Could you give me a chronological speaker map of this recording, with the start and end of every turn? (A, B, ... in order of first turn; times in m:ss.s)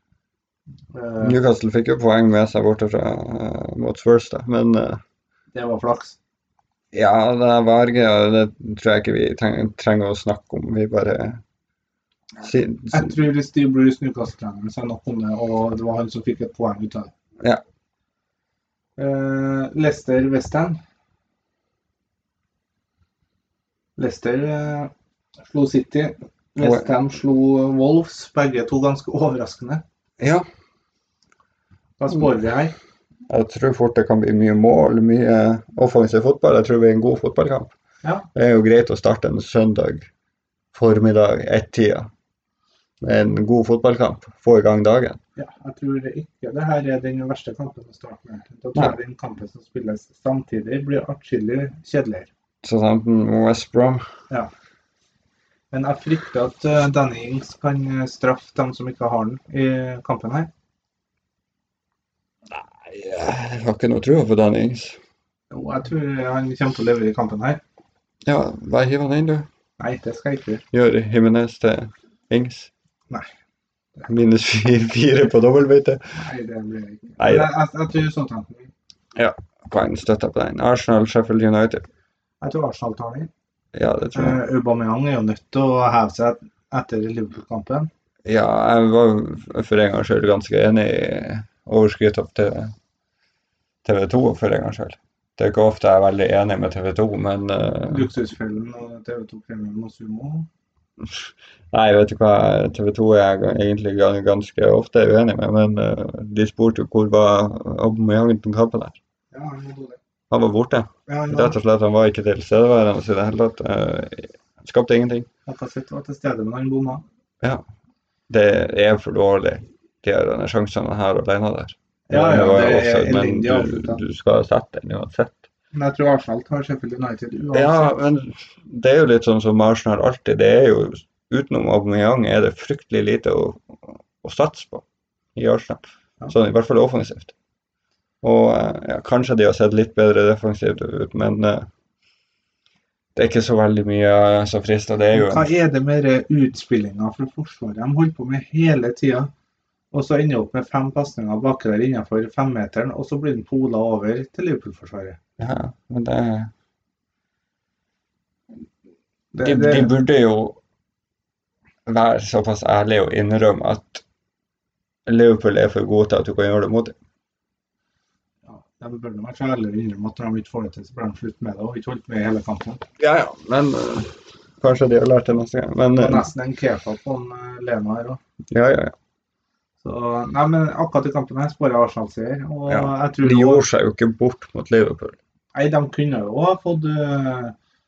0:00.9-0:01.4 A
0:01.2-0:05.0 B
0:05.5-0:06.2 A
0:06.9-0:11.4 B
0:12.4-0:13.2 B
0:12.4-0:17.1 A
0:19.0-0:20.8 A
0:24.0-0:24.9 A
0:25.5-0:29.8 A
0:26.6-0:26.9 B
0:30.2-0:30.5 B
0:32.0-0:32.7 A
0:33.3-0:37.7 B
0:38.4-0:40.1 B
0:40.7-0:42.1 B
0:43.0-0:45.2 B
0:45.4-0:52.3 A
0:52.6-0:54.1 B
0:55.7-1:00.5 A
1:02.5-1:05.0 B
1:05.5-1:07.6 A
1:08.2-1:09.5 B
1:09.8-1:10.6 A
1:10.7-1:12.7 B
1:14.1-1:16.0 B
1:16.1-1:18.7 A
1:17.2-1:17.5 B
1:19.1-1:21.9 B
1:22.4-1:23.3 A
1:23.7-1:24.4 B
1:24.1-1:27.9 A
1:28.2-1:32.7 B
1:33.8-1:38.1 B
1:37.9-1:40.5 A
1:41.0-1:49.0 B
1:49.3-1:50.0 A
1:50.3-1:55.3 B
1:51.1-1:51.6 A
1:55.5-1:57.0 A
1:58.3-2:05.4 B
2:02.1-2:04.0 A
2:05.7-2:08.0 A
2:07.5-2:17.3 B
2:18.2-2:21.7 B
2:23.1-2:25.5 B
2:25.1-2:29.3 A
2:29.9-2:35.2 A
2:35.4-2:36.5 B
2:39.3-2:39.9 A
2:39.4-2:40.6 B
2:41.9-2:44.0 B
2:45.1-2:46.9 B
2:48.5-2:52.8 A
2:53.0-2:56.3 B
2:56.0-2:58.2 A
2:58.5-2:58.9 B
2:59.8-3:03.6 A
3:02.7-3:05.2 B
3:05.6-3:07.6 A